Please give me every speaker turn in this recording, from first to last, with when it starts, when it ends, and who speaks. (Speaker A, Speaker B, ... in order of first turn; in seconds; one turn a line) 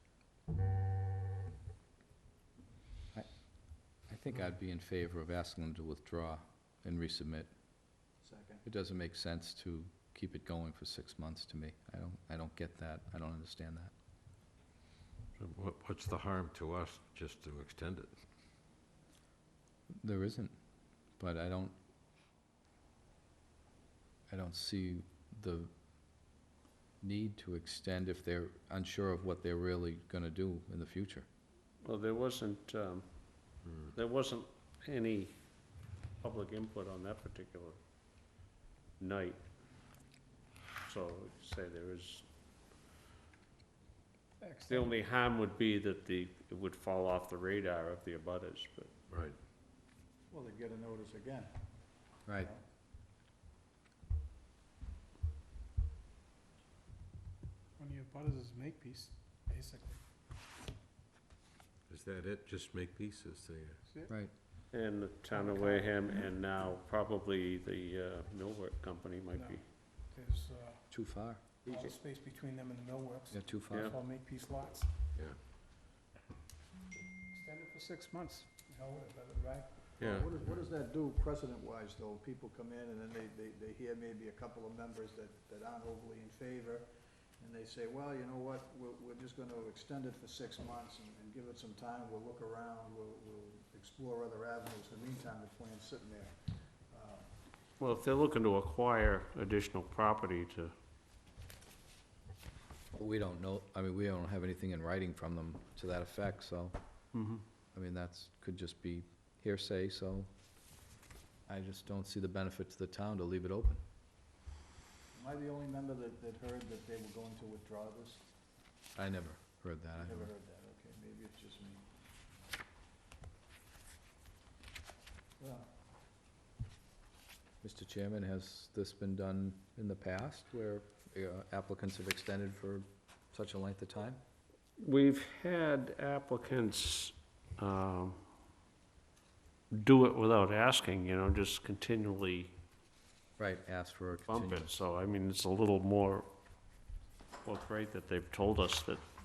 Speaker A: 3.1-7.5
Speaker B: 8.2-8.6
Speaker A: 8.6-13.9
Speaker C: 15.4-18.1
Speaker A: 20.0-20.5
Speaker A: 21.1-21.7
Speaker A: 24.3-25.7
Speaker A: 27.0-31.2
Speaker D: 31.8-35.5
Speaker C: 33.6-33.9
Speaker D: 36.2-37.8
Speaker D: 39.0-39.4
Speaker D: 40.8-42.3
Speaker E: 44.4-44.9
Speaker D: 44.7-48.9
Speaker C: 49.1-49.4
Speaker B: 50.3-52.6
Speaker A: 52.2-52.5
Speaker E: 57.8-60.0
Speaker C: 61.9-63.8
Speaker E: 63.8-64.1
Speaker D: 64.7-69.6
Speaker E: 65.3-66.2
Speaker E: 69.3-70.9
Speaker A: 70.9-71.4
Speaker E: 71.4-74.9
Speaker A: 73.3-73.9
Speaker D: 73.7-74.0
Speaker E: 77.3-80.0
Speaker C: 80.0-80.5
Speaker B: 80.0-96.4
Speaker B: 96.9-97.3
Speaker D: 97.8-100.7
Speaker A: 103.0-106.8
Speaker D: 107.1-107.4
Speaker A: 107.7-110.3
Speaker A: 111.5-113.8
Speaker B: 115.1-118.2
Speaker A: 119.0-120.3
Speaker B: 120.0-121.9
Speaker B: 125.4-125.7
Speaker A: 127.6-134.2
Speaker D: 134.8-138.2
Speaker D: 139.7-142.5
Speaker A: 143.4-144.8
Speaker D: 144.3-146.3
Speaker D: 147.4-149.0